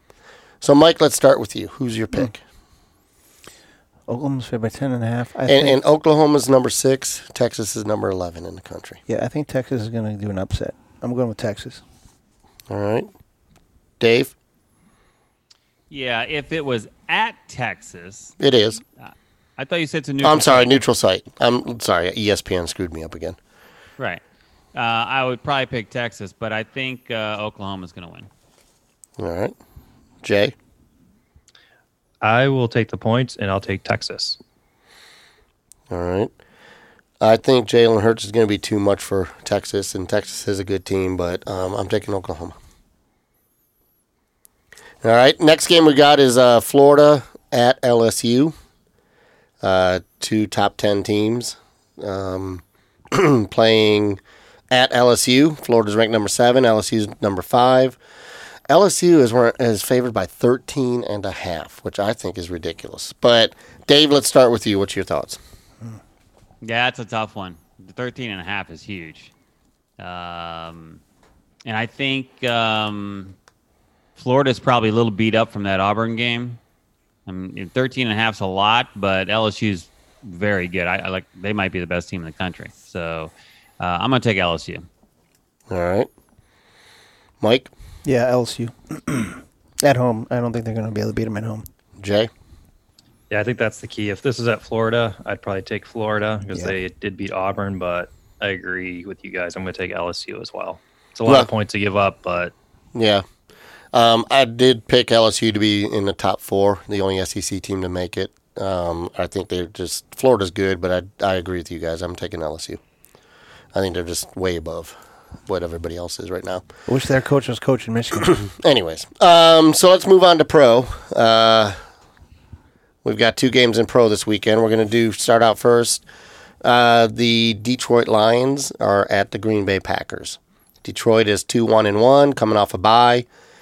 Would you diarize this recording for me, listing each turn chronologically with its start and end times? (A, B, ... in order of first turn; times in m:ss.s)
0:00.6-0:02.4 A
0:04.1-0:05.8 B
0:05.5-0:09.0 A
0:09.1-0:11.8 B
0:12.7-0:13.1 A
0:14.0-0:14.3 A
0:15.9-0:18.3 C
0:18.4-0:18.8 A
0:19.0-0:20.7 C
0:20.2-0:23.4 A
0:24.7-0:28.3 C
0:29.2-0:29.5 A
0:30.2-0:30.5 A
0:32.2-0:34.4 D
0:35.9-0:36.3 A
0:37.2-0:42.5 A
0:45.0-0:48.5 A
0:49.6-0:54.2 A
0:54.7-0:58.0 A
0:58.7-1:05.4 A
1:06.6-1:09.3 C
1:10.0-1:11.0 C
1:11.6-1:13.4 C
1:14.2-1:16.6 C
1:17.3-1:24.8 C
1:25.7-1:26.1 A
1:27.4-1:27.7 A
1:28.0-1:31.6 B
1:32.0-1:32.3 A
1:33.3-1:42.5 D
1:42.9-1:43.2 A
1:43.9-1:52.8 A
1:53.7-1:56.6 A
1:56.9-1:58.4 B
1:58.2-2:01.8 A
2:03.0-2:06.0 A
2:06.6-2:13.2 A